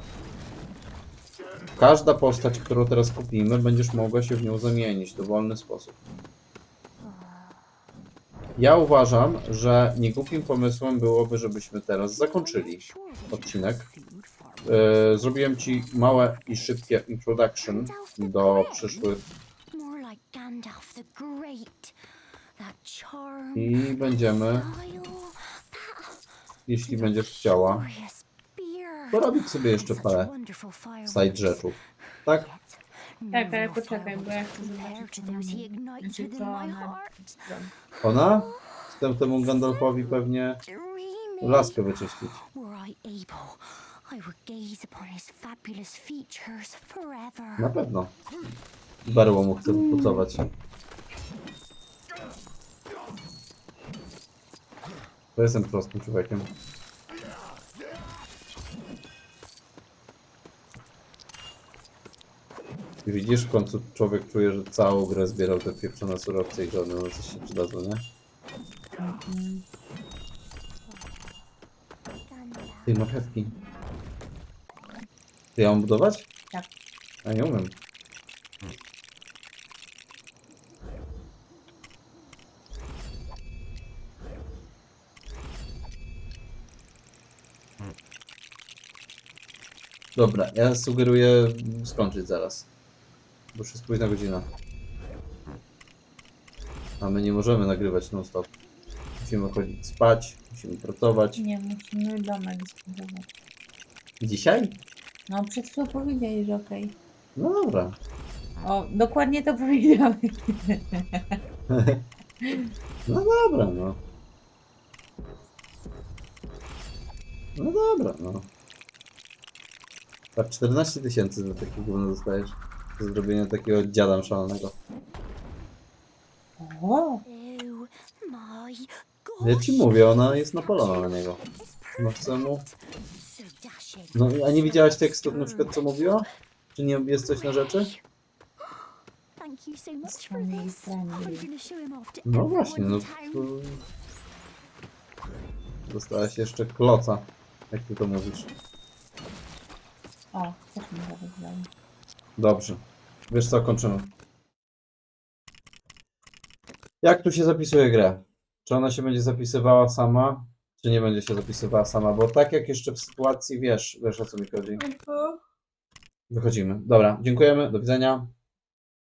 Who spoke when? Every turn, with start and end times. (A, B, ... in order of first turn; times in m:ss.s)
0:01.8-0:06.0 A
0:08.6-0:13.9 A
0:14.6-0:19.2 A
0:18.0-0:18.3 B
0:19.7-0:21.9 B
0:22.6-0:23.6 B
0:23.6-0:24.7 A
0:24.7-0:26.2 B
0:26.7-0:27.9 A
0:27.7-0:29.1 B
0:29.1-0:30.3 A
0:30.3-0:31.0 B
0:31.0-0:32.5 A
0:33.3-0:37.4 B
0:33.3-0:37.7 C
0:38.0-0:40.6 A
0:40.8-0:41.7 B
0:41.4-0:42.4 A
0:42.5-0:47.6 B
0:47.6-0:48.2 A
0:49.0-0:50.4 A
0:49.7-0:50.1 C
0:55.4-0:56.5 A
1:03.0-1:08.0 A
1:09.0-1:09.6 C
1:12.9-1:13.5 A
1:15.6-1:16.3 A
1:17.2-1:17.8 A
1:30.2-1:32.7 A
1:33.5-1:34.5 A
1:37.0-1:38.5 A
1:39.2-1:41.4 A
1:41.4-1:43.3 C
1:44.2-1:44.8 A
1:45.3-1:47.0 C
1:47.4-1:48.0 A
1:48.6-1:51.4 C
1:51.7-1:52.0 A
1:52.4-1:52.7 C
1:53.1-1:54.0 A
1:57.6-1:58.5 A
2:00.4-2:04.8 A
2:06.6-2:07.2 C
2:07.3-2:09.4 B
2:09.4-2:11.4 A
2:12.0-2:12.7 A
2:13.2-2:14.2 B
2:14.1-2:17.9 A
2:19.4-2:22.2 B
2:20.0-2:21.5 C
2:22.2-2:23.8 A
2:22.8-2:23.3 B
2:25.9-2:28.5 A
2:30.3-2:31.7 C
2:32.4-2:34.1 A
2:37.0-2:44.8 A
2:44.8-2:45.4 C
2:46.3-2:48.3 A